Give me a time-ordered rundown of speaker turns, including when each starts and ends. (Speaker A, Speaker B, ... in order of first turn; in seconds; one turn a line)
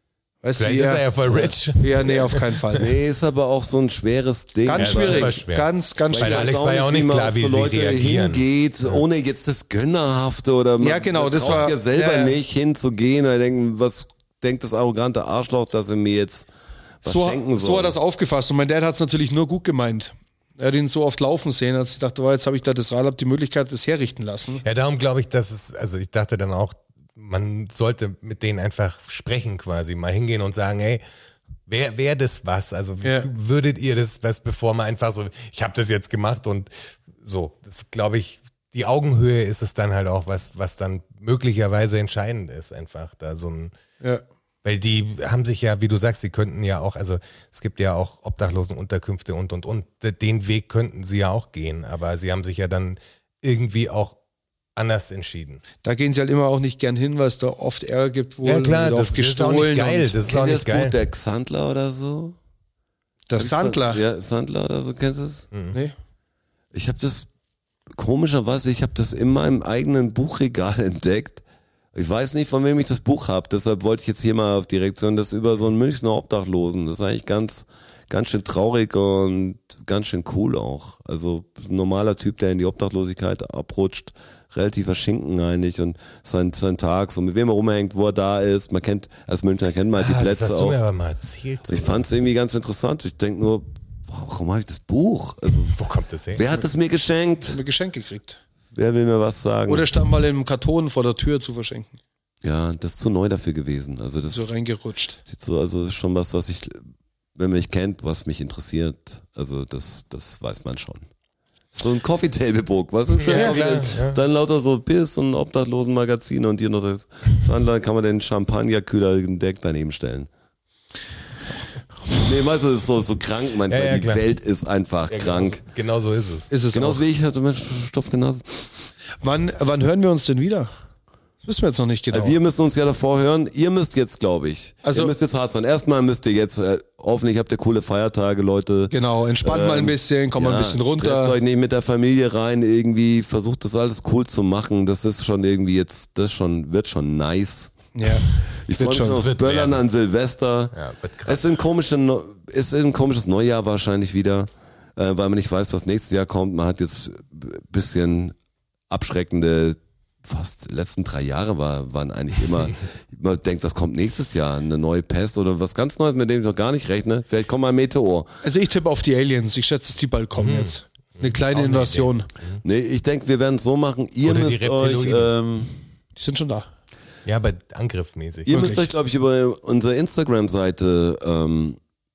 Speaker A: 0.4-1.1
Speaker B: 0.6-2.9
Speaker A: 1.7-2.9
Speaker C: 2.8-5.4
Speaker A: 4.7-6.6
Speaker B: 4.7-9.0
Speaker C: 6.1-16.5
Speaker A: 10.8-12.4
Speaker C: 17.0-17.9
Speaker A: 17.1-24.6
Speaker B: 24.6-31.0
Speaker B: 31.7-43.7
Speaker A: 33.0-33.3
Speaker B: 44.6-54.2
Speaker B: 54.8-55.6
Speaker A: 55.8-60.2
Speaker B: 58.4-61.0
Speaker C: 60.2-62.4
Speaker A: 63.3-64.0
Speaker C: 63.4-65.5
Speaker B: 65.5-65.8
Speaker C: 66.7-67.3
Speaker C: 68.0-71.4
Speaker C: 72.0-90.8
Speaker B: 89.9-92.1
Speaker C: 91.7-95.8
Speaker B: 95.7-96.5
Speaker C: 96.3-97.6
Speaker A: 97.5-98.4
Speaker C: 98.7-100.0
Speaker A: 99.7-102.0
Speaker C: 102.4-104.5
Speaker A: 104.3-105.2
Speaker C: 105.2-106.8
Speaker C: 107.4-111.1
Speaker C: 111.7-120.3
Speaker B: 113.2-114.2
Speaker A: 113.3-113.6
Speaker C: 122.1-125.6
Speaker B: 123.7-124.2
Speaker B: 125.1-126.5
Speaker A: 126.5-127.0
Speaker C: 126.7-128.9
Speaker A: 129.2-130.7
Speaker A: 131.4-132.4
Speaker C: 132.1-158.3
Speaker A: 134.8-135.1
Speaker A: 138.9-141.4
Speaker A: 147.9-149.2
Speaker B: 149.1-149.8
Speaker B: 150.7-151.6
Speaker C: 158.9-168.3
Speaker A: 168.4-172.3
Speaker B: 170.4-172.6
Speaker C: 172.6-175.8
Speaker B: 174.2-175.3
Speaker A: 176.2-176.7
Speaker B: 177.3-178.5
Speaker C: 178.5-181.8
Speaker A: 178.5-178.9